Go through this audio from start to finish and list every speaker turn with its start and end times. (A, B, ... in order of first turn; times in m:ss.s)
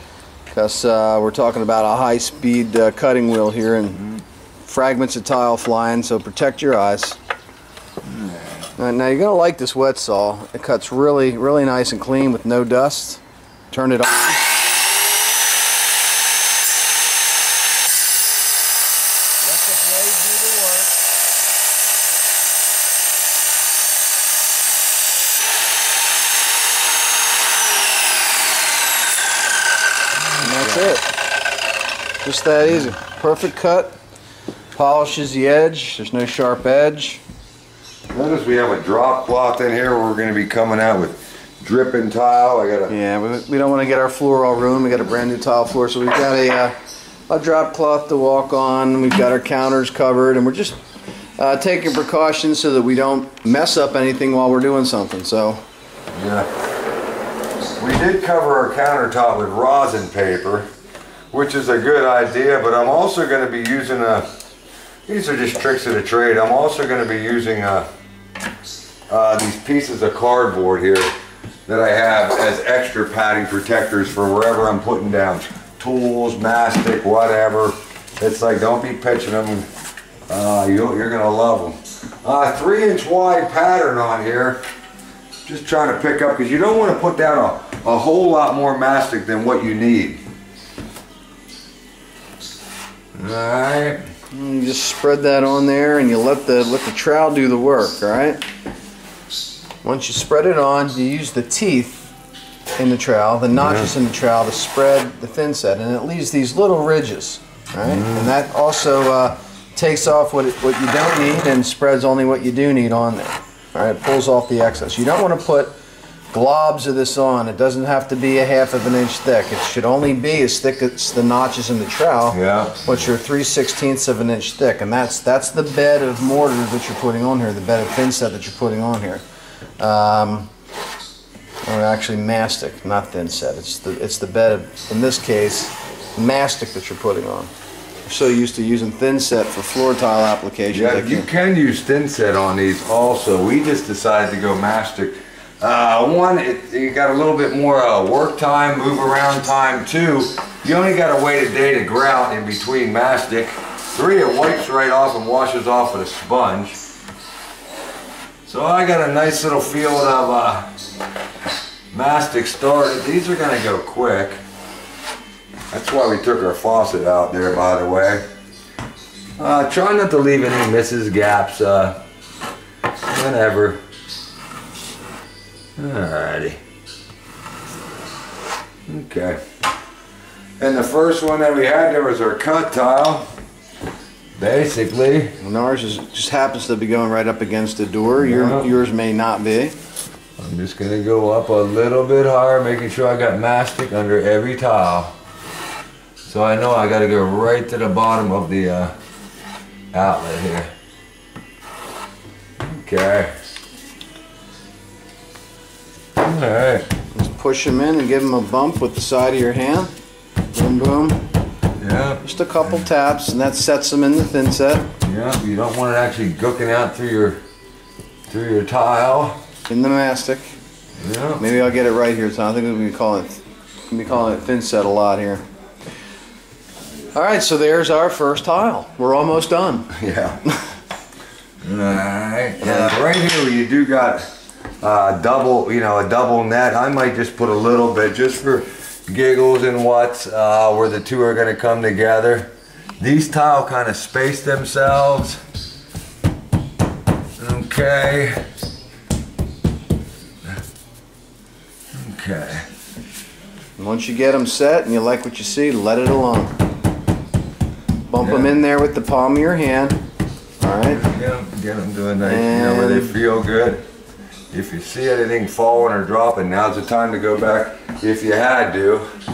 0:00.5-0:04.0 A
0:04.6-0:07.2 A
0:08.0-0:08.6 B
0:08.8-0:14.4 A
0:19.4-0:20.9 B
0:30.3-0:31.0 B
0:30.4-0:31.1 A
0:32.2-0:34.0 A
0:34.7-0:37.2 A
0:38.1-0:42.9 B
0:42.9-0:46.8 A
0:47.3-0:50.8 A
0:51.4-0:55.6 A
0:56.1-0:56.5 B
0:57.8-1:00.7 B
1:01.3-1:04.3 B
1:05.1-1:07.9 B
1:09.1-1:11.1 B
1:11.7-1:19.7 B
1:20.3-1:24.6 B
1:25.4-1:30.2 B
1:33.2-1:34.0 B
1:34.3-1:38.4 A
1:39.8-1:42.1 A
1:42.8-1:55.8 A
1:43.5-1:43.9 B
1:47.8-1:48.3 B
1:56.3-2:09.2 A
2:02.3-2:03.0 B
2:09.8-2:10.5 A
2:11.6-2:17.5 A
2:18.1-2:21.3 A
2:20.7-2:36.8 B
2:38.5-2:40.7 B
2:41.9-2:44.4 B
2:45.7-2:48.2 B
2:49.4-2:52.0 B
2:53.0-2:53.8 B
2:55.8-2:56.6 B
2:58.9-2:59.4 B
3:00.6-3:03.3 B
3:04.4-3:05.4 B
3:05.4-3:09.8 A
3:08.2-3:08.7 B
3:10.4-3:15.1 B
3:16.2-3:18.9 B
3:19.9-3:20.7 B
3:22.6-3:23.3 B
3:26.2-3:26.9 B
3:27.1-3:29.9 A
3:30.5-3:31.2 A
3:31.8-3:32.2 B
3:32.2-3:34.9 A
3:35.0-3:37.4 B
3:38.3-3:39.4 B
3:39.7-3:40.5 A
3:41.0-3:41.4 B
3:41.4-3:45.4 A
3:47.1-3:49.9 A
3:49.9-3:50.4 B
3:51.6-3:54.2 B
3:52.6-3:52.9 A
3:54.8-4:05.4 B
4:07.4-4:08.4 B
4:11.9-4:12.6 B
4:13.8-4:16.6 A
4:18.1-4:20.0 A
4:18.2-4:18.5 B
4:20.6-4:21.0 A
4:20.9-4:23.8 B
4:22.2-4:23.2 A
4:24.5-4:29.0 B